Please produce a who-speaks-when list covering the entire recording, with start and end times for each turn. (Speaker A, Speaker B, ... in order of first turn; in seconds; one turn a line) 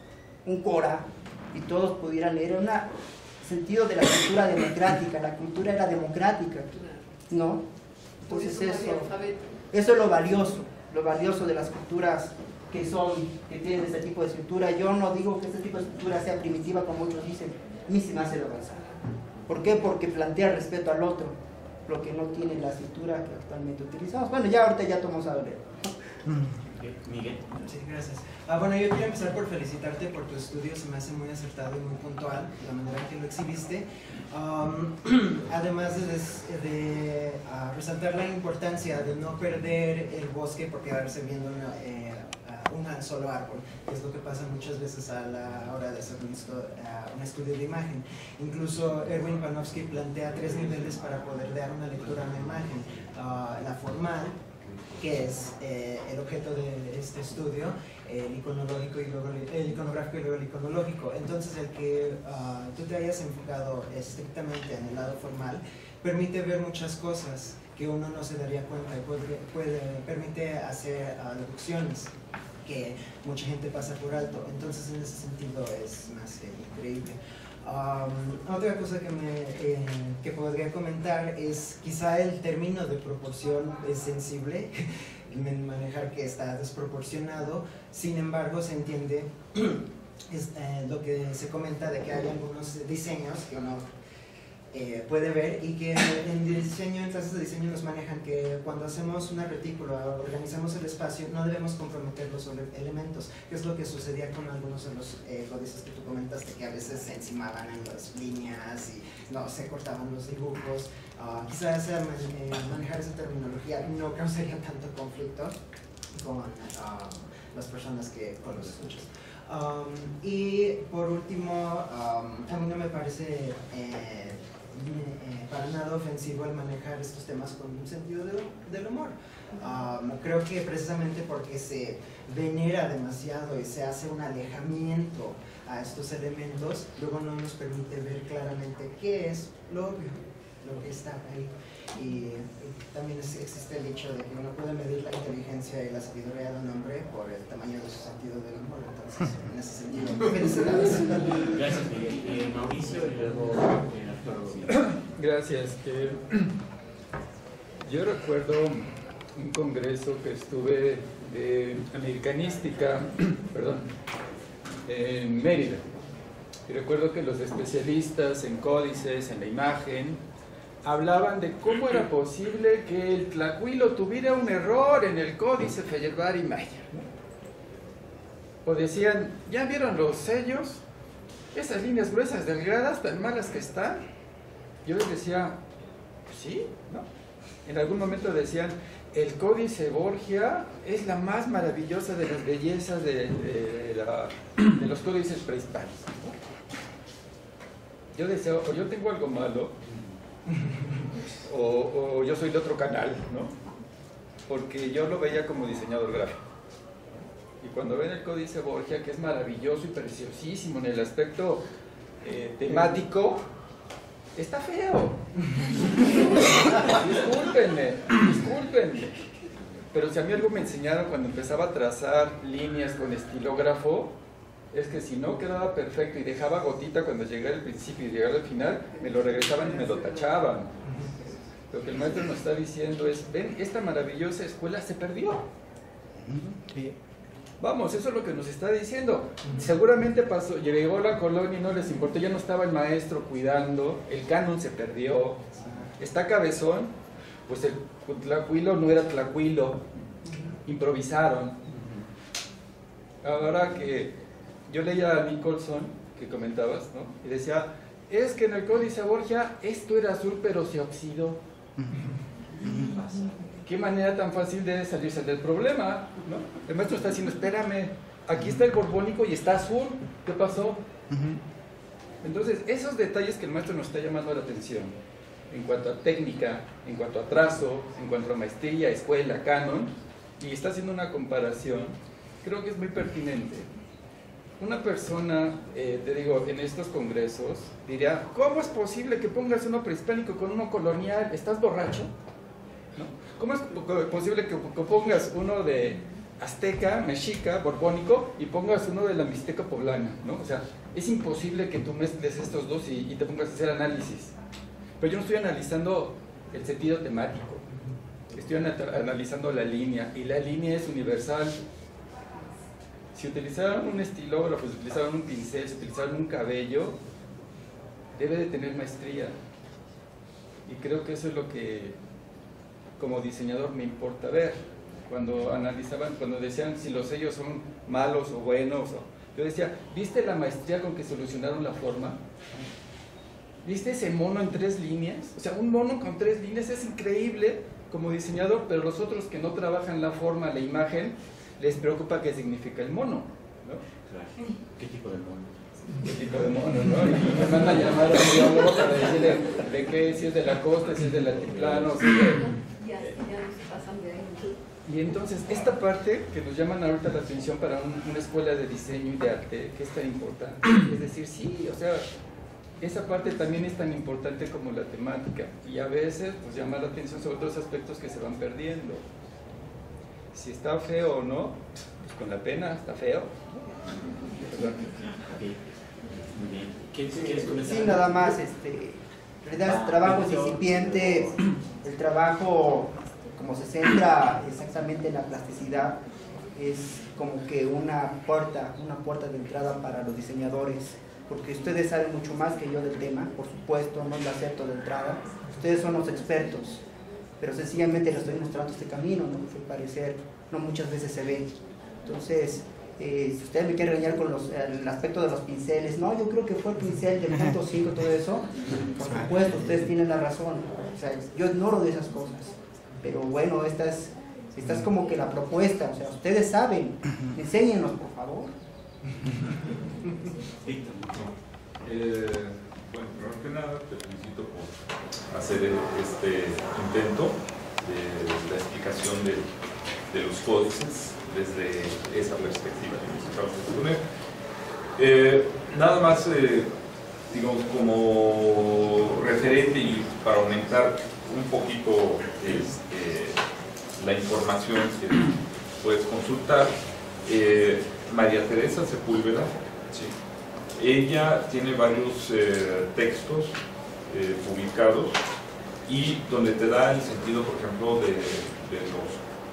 Speaker A: 0.4-6.7
Speaker B: 6.7-7.1
Speaker A: 7.3-7.7
Speaker B: 8.2-9.4
Speaker A: 8.3-9.1
Speaker A: 9.7-18.9
Speaker A: 19.5-25.9
Speaker C: 26.7-27.5
Speaker D: 27.6-54.4
Speaker D: 54.9-72.1
Speaker D: 72.6-93.9
Speaker D: 94.7-115.6
Speaker D: 116.1-151.4
Speaker C: 151.3-154.7
Speaker E: 155.1-156.5
Speaker E: 157.8-163.9
Speaker E: 164.8-165.8
Speaker E: 166.7-170.2
Speaker E: 170.8-177.0
Speaker E: 178.6-180.8
Speaker E: 181.5-184.0
Speaker E: 184.8-185.6
Speaker E: 186.3-187.1
Speaker E: 187.6-196.4
Speaker E: 198.1-199.7
Speaker C: 199.8-200.2
Speaker E: 201.4-203.5
Speaker E: 204.5-206.4
Speaker E: 207.6-211.6
Speaker E: 212.2-213.4
Speaker E: 214.3-219.1
Speaker E: 219.9-224.1
Speaker E: 224.7-230.7
Speaker A: 229.0-230.3
Speaker E: 231.7-235.5
Speaker E: 237.6-245.4
Speaker E: 246.0-246.9
Speaker E: 247.4-249.8
Speaker E: 250.6-251.6
Speaker C: 251.7-252.0
Speaker E: 253.2-254.1
Speaker E: 254.7-261.4
Speaker C: 262.6-263.3
Speaker E: 263.6-271.3
Speaker E: 272.2-274.9
Speaker E: 275.5-283.7
Speaker E: 284.6-292.1
Speaker E: 292.9-304.3
Speaker E: 305.0-307.6
Speaker E: 308.3-311.6
Speaker E: 313.1-317.0
Speaker E: 318.1-319.4
Speaker E: 320.6-322.0
Speaker E: 323.0-332.2
Speaker E: 333.6-343.8
Speaker C: 344.1-345.5
Speaker E: 346.0-352.4
Speaker C: 351.5-351.9
Speaker B: 352.1-354.6
Speaker E: 354.8-362.1
Speaker E: 362.8-369.0
Speaker E: 370.3-373.5
Speaker C: 375.3-375.6
Speaker C: 376.2-378.4
Speaker A: 377.1-386.0
Speaker C: 379.6-381.4
Speaker A: 386.5-396.8
Speaker A: 397.4-418.5
Speaker F: 420.7-421.3
Speaker F: 421.8-424.8
Speaker F: 425.3-429.5
Speaker F: 430.1-434.0
Speaker F: 435.0-436.7
Speaker F: 437.3-443.4
Speaker F: 444.0-450.1
Speaker F: 450.7-455.2
Speaker F: 455.9-459.2